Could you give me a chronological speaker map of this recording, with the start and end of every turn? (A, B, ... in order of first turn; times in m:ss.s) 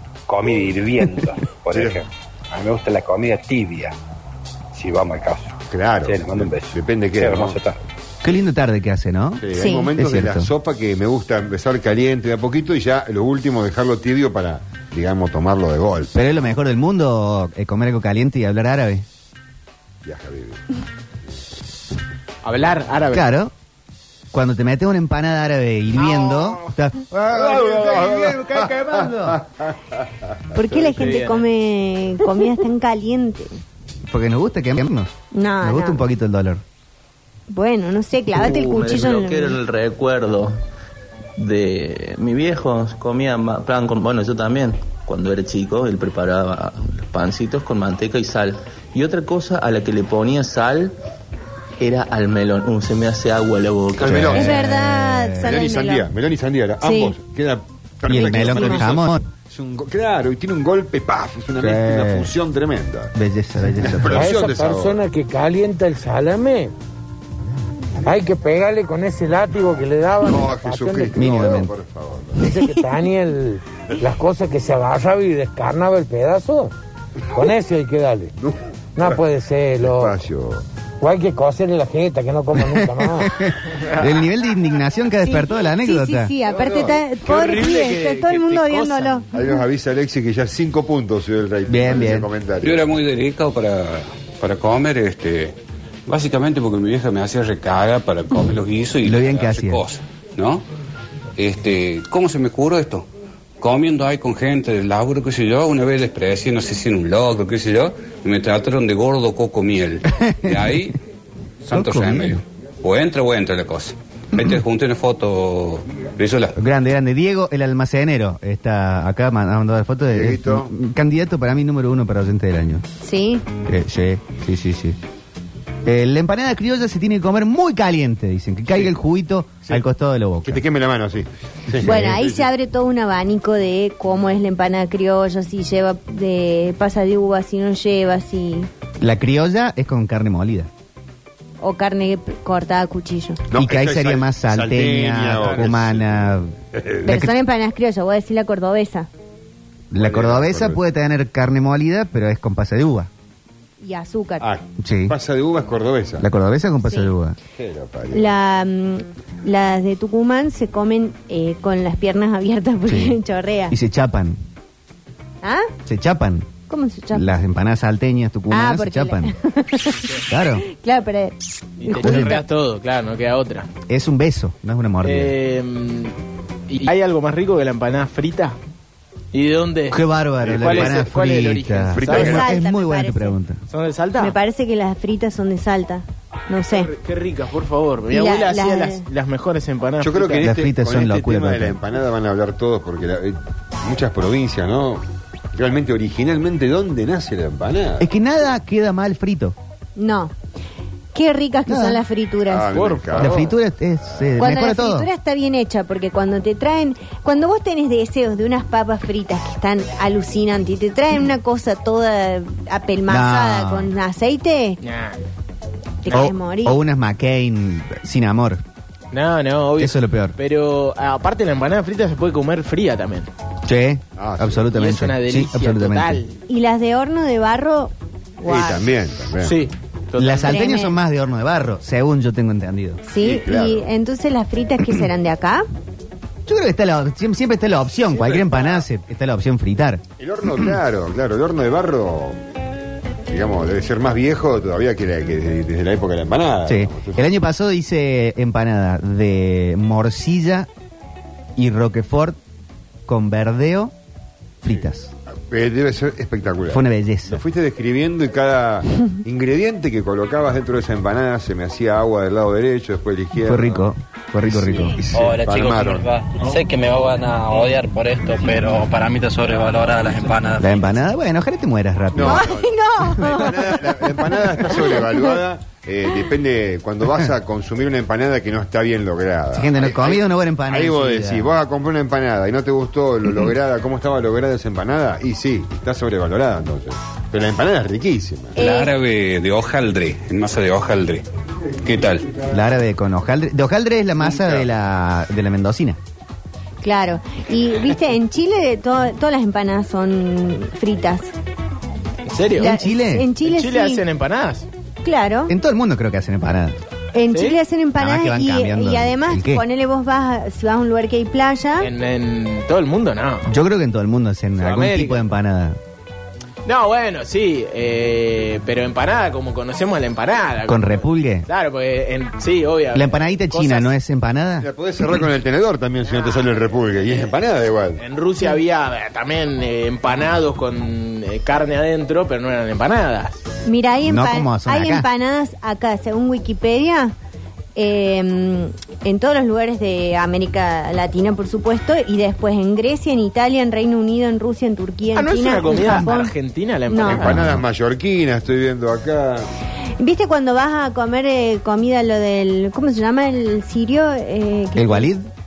0:00.3-0:04.0 A
0:01.0-0:01.3 B
0:01.7-0:02.0 C
0:04.7-0:05.6 A
0:05.7-0:07.6 C
0:06.1-0:07.8 A
0:08.2-0:10.5 B
0:09.4-0:16.1 C
0:09.5-0:09.9 D
0:16.1-0:19.0 B
0:20.0-0:20.6 C
0:22.4-0:23.3 E
0:23.1-0:23.5 B
0:24.3-0:29.4 B
0:26.1-0:26.6 E
0:27.3-0:30.0 C
0:30.5-0:33.6 D
0:30.9-0:31.5 E
0:34.1-0:36.6 B
0:35.3-0:36.0 D
0:37.5-0:39.6 D
0:38.3-0:40.6 F
0:41.4-0:51.0 F
0:51.8-0:54.4 F
0:54.0-0:54.6 C
0:54.0-0:55.6 B
0:54.3-0:56.1 D
0:55.4-1:03.2 C
0:56.8-0:57.1 D
0:58.1-0:59.2 B
1:01.6-1:02.3 B
1:03.2-1:04.3 B
1:03.8-1:05.0 C
1:04.1-1:06.7 G
1:08.0-1:11.6 G
1:10.2-1:12.5 C
1:11.2-1:11.7 B
1:12.4-1:16.7 G
1:17.3-1:18.3 G
1:18.4-1:19.2 C
1:19.0-1:20.2 G
1:19.8-1:20.6 C
1:21.0-1:23.3 G
1:22.6-1:26.3 B
1:25.2-1:29.2 D
1:26.5-1:27.0 C
1:27.3-1:29.2 E
1:29.3-1:32.8 C
1:31.7-1:32.3 B
1:32.6-1:40.6 H
1:39.0-1:39.8 B
1:41.4-1:43.1 H
1:43.6-1:51.0 H
1:50.2-1:50.8 B
1:51.6-1:56.6 H
1:51.7-1:52.4 B
1:56.6-2:02.8 B
2:00.1-2:00.7 C
2:03.0-2:03.4 D
2:03.7-2:05.0 B
2:05.8-2:10.6 B
2:10.4-2:12.5 C
2:11.8-2:18.7 D
2:19.0-2:20.7 B
2:21.6-2:23.4 D
2:23.5-2:27.1 C
2:23.5-2:26.5 B
2:27.0-2:27.3 B
2:27.0-2:29.1 D
2:29.9-2:33.1 B
2:30.0-2:30.8 C
2:33.8-2:34.4 D
2:34.4-2:36.3 C
2:34.8-2:35.2 B
2:36.2-2:37.4 B
2:36.8-2:37.1 D
2:37.6-2:38.3 C
2:38.1-2:43.8 D
2:42.9-2:43.2 B
2:43.7-2:44.4 B
2:45.4-2:45.7 D
2:45.9-2:46.5 B
2:46.7-2:47.3 D
2:47.1-2:49.3 B
2:48.5-2:50.1 D
2:50.3-2:50.6 B
2:50.6-2:52.4 D
2:51.8-2:53.7 E
2:52.0-2:52.4 B
2:53.9-2:55.3 B
2:55.0-2:56.2 E
2:56.7-2:58.6 E
2:59.3-3:02.4 E
2:59.9-3:03.6 B
3:00.4-3:01.0 C
3:02.0-3:02.5 C
3:02.1-3:03.4 D
3:03.7-3:04.4 E
3:04.2-3:06.9 D
3:06.7-3:10.5 E
3:08.1-3:09.0 D
3:10.0-3:15.0 C
3:10.4-3:11.8 B
3:15.6-3:18.1 C
3:18.0-3:19.6 B
3:20.0-3:20.4 D
3:21.1-3:22.7 D
3:21.7-3:22.0 B
3:22.5-3:23.5 C
3:22.7-3:23.5 E
3:23.2-3:25.1 B
3:24.4-3:34.8 D
3:33.1-3:33.9 B
3:34.8-3:35.2 E
3:36.0-3:36.8 D
3:36.1-3:38.6 B
3:39.1-3:43.3 E
3:39.8-3:40.4 B
3:43.7-3:46.2 B
3:44.2-3:44.6 C
3:44.7-3:46.4 E
3:46.5-3:48.8 D
3:48.4-3:49.6 C
3:49.4-3:50.6 E
3:50.2-3:53.0 B
3:50.5-3:51.0 D
3:53.0-3:55.7 D
3:53.2-3:53.9 C
3:56.5-4:00.0 B
3:58.1-3:58.8 C
4:00.2-4:02.4 C
4:03.3-4:07.2 C
4:06.7-4:10.7 B
4:11.6-4:12.4 B
4:13.1-4:13.9 B
4:14.6-4:15.1 B
4:14.7-4:23.9 C
4:16.7-4:17.4 B
4:23.4-4:25.0 B
4:24.5-4:26.1 C
4:25.1-4:30.9 I
4:30.6-4:32.5 B
4:32.1-4:48.7 C
4:32.2-4:33.8 D
4:34.7-4:35.0 D
4:39.5-4:41.5 B
4:48.6-4:48.9 D
4:48.6-4:51.2 H
4:51.8-4:52.3 H
4:52.5-4:56.0 B
4:54.2-4:54.7 C
4:56.8-5:01.3 D
5:02.3-5:02.7 E
5:02.6-5:03.3 B
5:02.6-5:04.0 D
5:03.4-5:04.7 E
5:05.0-5:05.5 D
5:05.5-5:06.8 B
5:07.1-5:11.9 D
5:08.0-5:09.6 B
5:11.8-5:13.5 E
5:13.5-5:15.8 B
5:14.6-5:15.2 E
5:16.6-5:23.9 E
5:20.7-5:21.5 B
5:22.9-5:24.7 B
5:24.6-5:28.0 C
5:26.0-5:26.5 E
5:28.0-5:33.5 E
5:33.6-5:37.2 D
5:34.0-5:35.1 B
5:37.8-5:46.3 D
5:45.1-5:47.6 E
5:46.9-5:47.3 D
5:47.0-5:49.5 C
5:50.0-5:55.1 D
5:54.8-5:55.2 B